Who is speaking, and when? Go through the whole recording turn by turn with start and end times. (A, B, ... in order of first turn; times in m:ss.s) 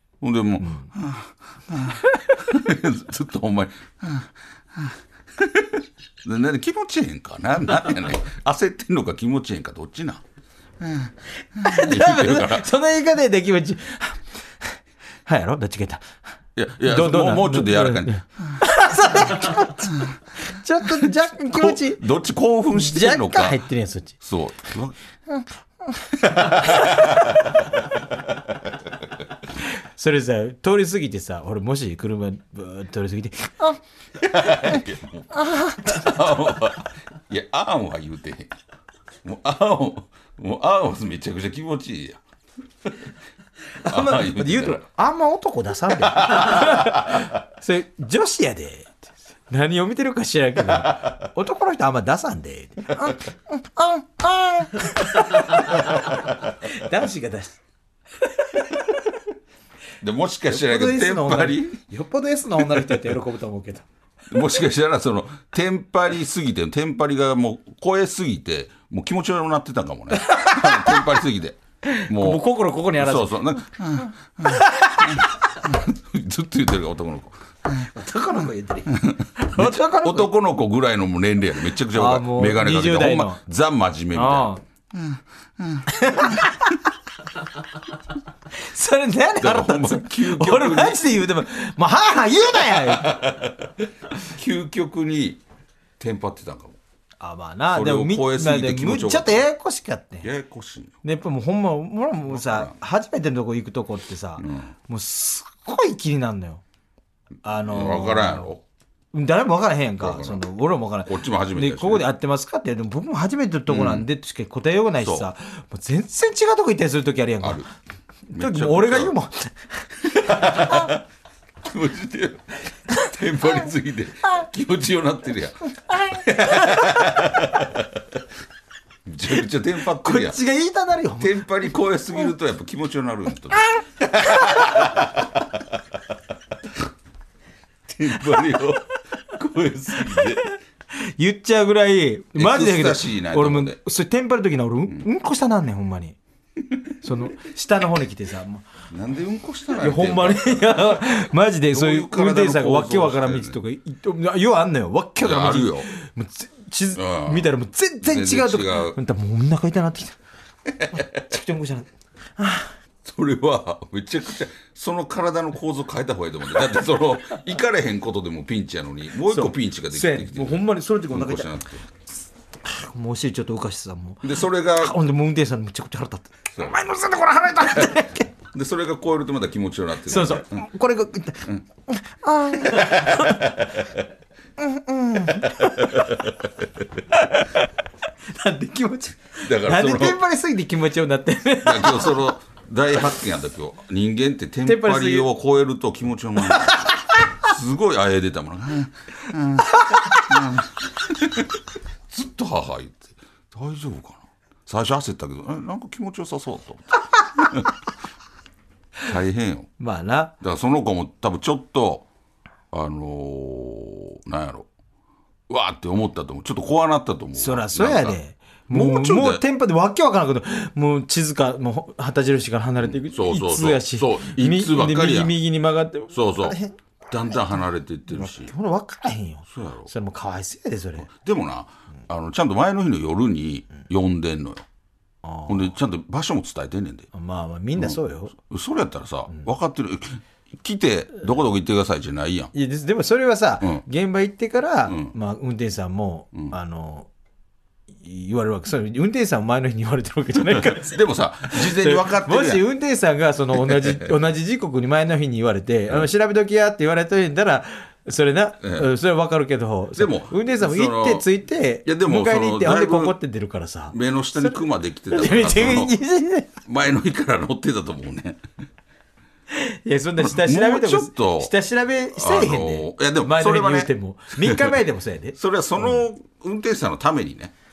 0:00.2-0:10.2 A
0:00.6-0:00.9 B
0:10.8-0:12.7 A
0:11.6-0:16.1 B
0:16.6-0:18.6 A
0:16.8-0:22.0 B
0:19.2-0:20.2 A
0:20.9-0:23.6 A
0:22.7-0:24.2 B
0:24.2-0:25.0 A
0:25.3-0:27.4 B
0:26.4-0:27.4 A
0:29.6-0:33.8 B
0:34.2-0:38.6 A
0:34.4-0:36.3 B
0:39.2-0:42.2 A
0:43.8-0:57.6 B
0:43.8-0:44.8 A
0:46.0-0:47.3 A
0:50.7-0:51.2 A
0:58.2-0:59.0 B
1:00.0-1:01.8 A
1:00.5-1:03.9 B
1:04.3-1:12.4 A
1:10.1-1:11.0 B
1:11.9-1:13.4 B
1:13.0-1:17.9 A
1:14.5-1:15.3 B
1:17.9-1:20.3 B
1:18.9-1:26.6 A
1:21.9-1:23.4 B
1:24.1-1:24.6 B
1:25.9-1:26.8 B
1:28.5-1:33.2 B
1:29.4-1:31.1 A
1:32.7-1:35.4 A
1:36.0-1:36.8 A
1:37.2-1:40.3 B
1:37.7-1:39.5 A
1:40.2-1:41.0 A
1:41.0-1:46.6 B
1:42.3-1:42.8 A
1:44.4-1:44.7 A
1:47.4-1:48.5 B
1:47.7-1:48.6 A
1:49.1-1:57.7 B
1:50.0-1:50.4 A
1:51.0-1:52.1 A
1:53.7-1:54.1 A
1:55.0-1:55.3 A
1:58.3-2:01.0 B
1:58.3-1:59.2 A
2:00.0-2:01.0 A
2:01.6-2:08.2 A
2:06.0-2:07.2 B
2:09.1-2:10.4 A
2:10.0-2:11.5 B
2:11.2-2:15.8 A
2:14.4-2:14.7 B
2:17.9-2:20.4 A
2:21.0-2:26.2 B
2:22.4-2:23.8 A
2:27.0-2:28.7 B
2:28.9-2:31.0 A
2:29.7-2:40.2 B
2:31.7-2:33.6 A
2:35.2-2:35.9 A
2:37.0-2:39.0 A
2:40.7-2:41.1 A
2:40.9-2:42.8 B
2:43.0-2:51.8 A
2:49.3-2:51.5 B
2:52.6-2:58.3 B
2:54.2-2:55.0 A
2:57.7-2:58.0 A
2:58.5-3:00.6 A
3:00.0-3:03.8 B
3:02.6-3:03.9 A
3:04.6-3:06.2 B
3:05.3-3:06.7 A
3:07.1-3:07.7 B
3:08.3-3:12.3 B
3:09.4-3:10.2 A
3:11.6-3:27.8 A
3:14.6-3:15.3 B
3:16.5-3:16.9 B
3:19.8-3:20.2 B
3:29.0-3:29.7 A
3:29.8-3:30.3 B
3:30.4-3:32.1 A
3:32.7-3:34.7 A
3:35.5-3:38.2 A
3:37.4-3:46.8 B
3:38.7-3:39.4 A
3:42.8-3:45.3 A
3:46.1-3:46.6 A
3:47.1-3:48.5 A
3:48.1-3:51.1 B
3:49.5-3:49.9 A
3:51.0-3:54.6 A
3:55.2-3:55.7 B
3:55.5-3:57.1 A
3:57.1-3:58.4 B
3:57.8-4:02.5 A
4:02.5-4:07.1 B
4:04.9-4:05.1 A
4:08.0-4:26.5 B
4:10.6-4:12.6 A
4:13.6-4:14.1 A
4:18.6-4:18.9 A
4:20.0-4:21.3 A
4:21.8-4:23.2 A
4:23.9-4:26.0 A
4:26.6-4:28.4 A
4:29.5-4:36.0 B
4:30.2-4:31.5 A
4:32.1-4:34.8 A
4:35.4-4:37.5 A